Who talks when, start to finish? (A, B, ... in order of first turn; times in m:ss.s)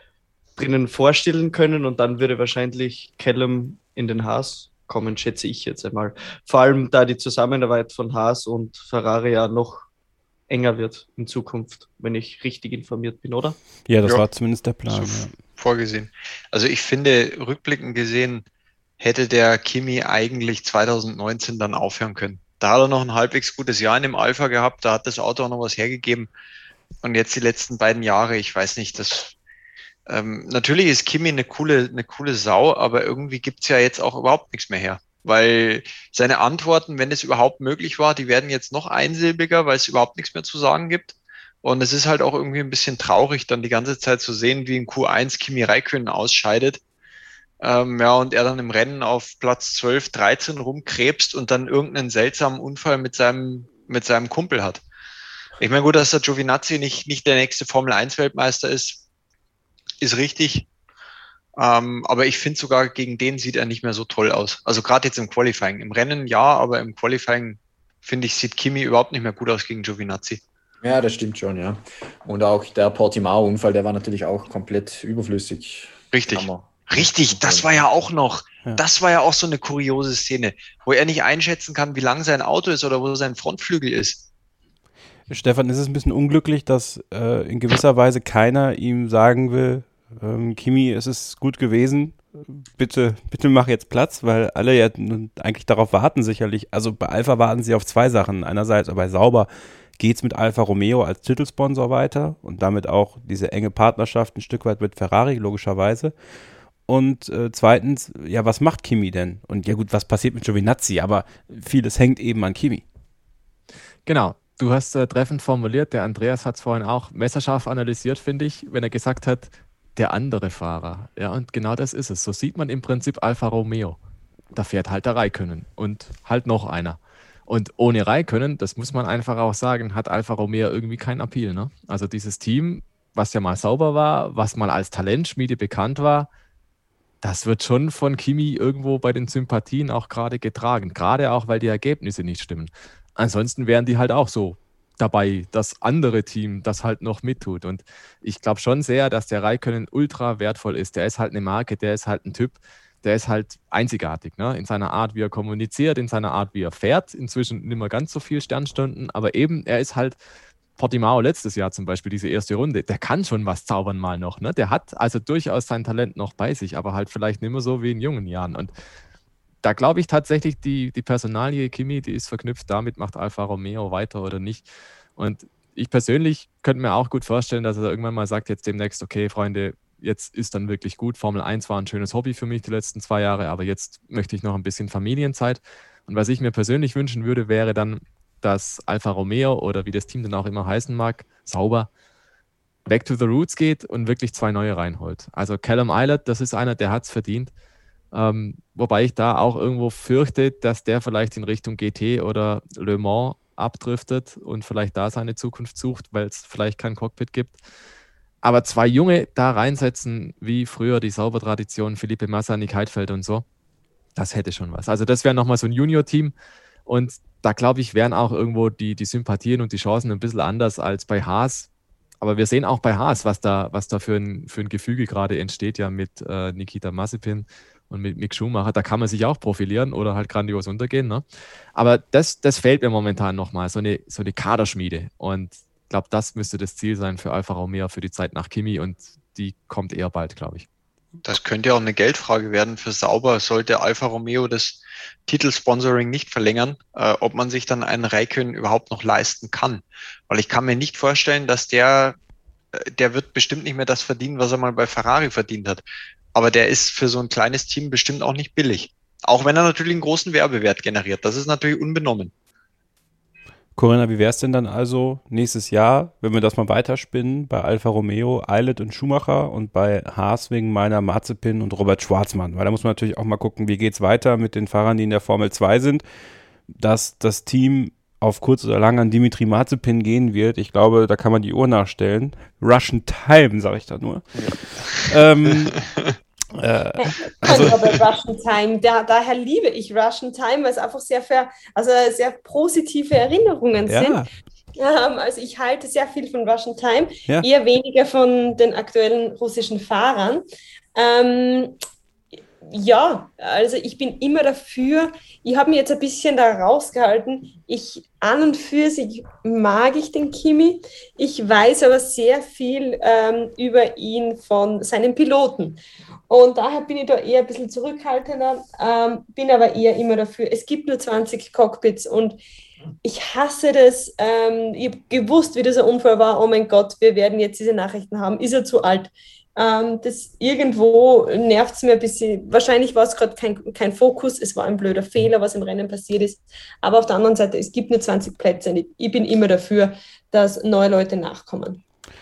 0:00.6-0:09.9 A
0:10.5-0:13.6 A
0:13.9-0:15.3 B
0:14.9-0:18.4 C
0:19.0-0:26.3 C
0:27.0-0:29.4 C
0:30.1-0:46.8 C
0:47.6-0:54.8 C
0:55.6-0:59.0 C
1:00.0-1:00.7 C
1:01.6-1:10.4 C
1:10.8-1:17.7 D
1:16.1-1:24.3 C
1:25.3-1:46.1 B
1:46.9-1:52.8 B
1:54.1-2:04.0 E
2:04.5-2:16.3 E
2:17.2-2:40.2 E
2:40.8-2:48.7 E
2:49.6-2:54.7 E
2:55.2-3:11.9 E
3:12.9-3:17.5 E
3:18.1-3:27.6 E
3:28.4-3:33.4 E
3:34.2-3:36.4 E
3:36.9-3:41.7 E
3:42.2-4:00.7 E
4:01.2-4:12.2 C
4:12.8-4:15.8 C
4:16.3-4:22.3 C
4:23.8-4:36.0 B
4:36.7-4:45.8 B
4:44.4-4:46.2 C
4:46.6-4:47.8 B
4:47.0-4:54.2 F
4:47.4-4:47.7 C
4:53.9-4:54.3 B
4:54.8-5:01.8 F
5:02.6-5:22.4 F
5:23.0-5:41.8 F